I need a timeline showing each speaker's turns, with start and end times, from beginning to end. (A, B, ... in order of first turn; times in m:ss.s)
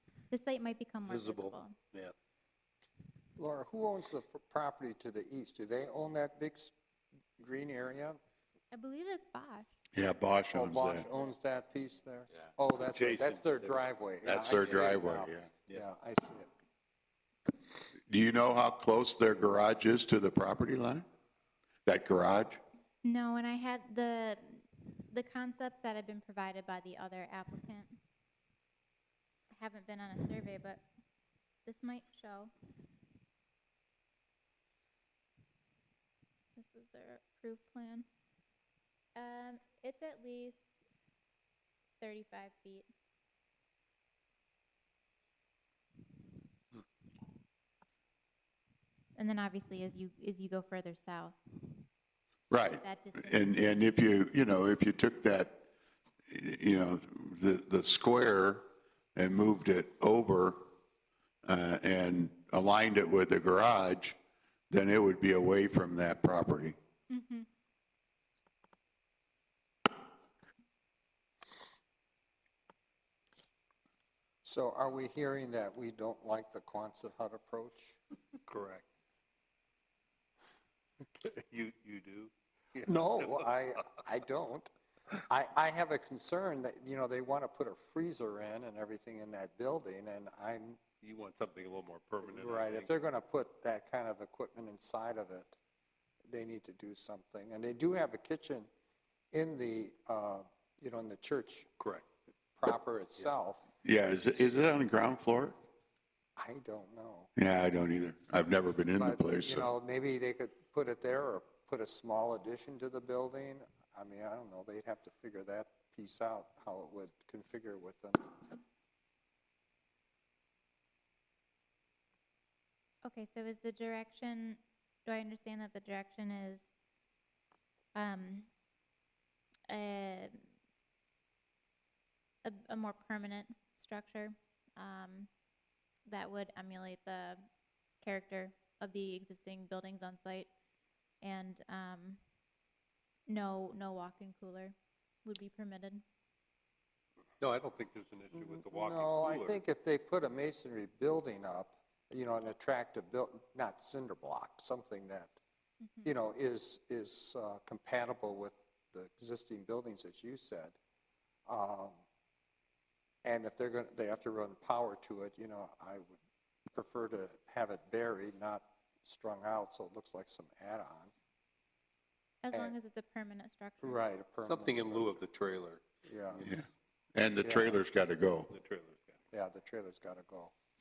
0:00.3-0:01.7 A
0:01.0-0:02.1 B
0:03.4-0:06.7 C
0:07.4-0:08.2 C
0:08.7-0:09.7 A
0:09.9-0:11.1 D
0:10.5-0:16.5 C
0:12.8-0:13.8 B
0:14.2-0:15.5 D
0:18.1-0:21.0 D
0:21.8-0:22.6 D
0:23.0-0:28.0 A
0:29.5-0:30.8 A
0:31.6-0:32.5 A
0:36.6-0:38.0 A
0:39.2-0:40.6 A
0:42.0-0:42.9 A
0:49.2-0:51.4 A
0:52.5-0:55.6 D
0:52.8-0:53.7 A
0:56.3-1:00.7 D
1:01.4-1:04.2 D
1:04.7-1:06.8 D
1:07.1-1:07.5 A
1:14.4-1:18.0 C
1:18.5-1:18.9 B
1:21.2-1:23.5 B
1:22.8-1:24.7 C
1:25.3-1:30.8 C
1:31.0-1:32.9 B
1:32.2-1:35.6 C
1:36.3-1:38.7 C
1:39.3-1:41.7 C
1:41.8-1:42.0 B
1:42.6-1:43.6 C
1:43.8-1:45.6 D
1:46.4-1:47.3 C
1:47.4-1:49.7 D
1:49.0-1:58.5 C
2:03.0-2:06.7 A
2:07.9-2:08.5 A
2:09.7-2:10.4 A
2:12.4-2:15.3 A
2:16.1-2:17.4 A
2:18.0-2:20.5 A
2:21.2-2:22.2 A
2:23.3-2:26.0 A
2:27.4-2:29.6 B
2:28.3-2:35.4 C
2:35.8-2:36.1 A
2:36.0-2:40.8 C
2:41.4-2:42.0 C
2:43.2-2:46.2 C
2:46.7-2:51.1 C
2:52.4-2:54.0 A
2:53.8-2:55.2 C
2:54.4-2:56.5 B
2:56.0-2:56.5 C
2:56.4-2:58.5 D
2:57.4-2:57.8 C
2:58.5-2:59.2 B
2:59.3-3:00.5 C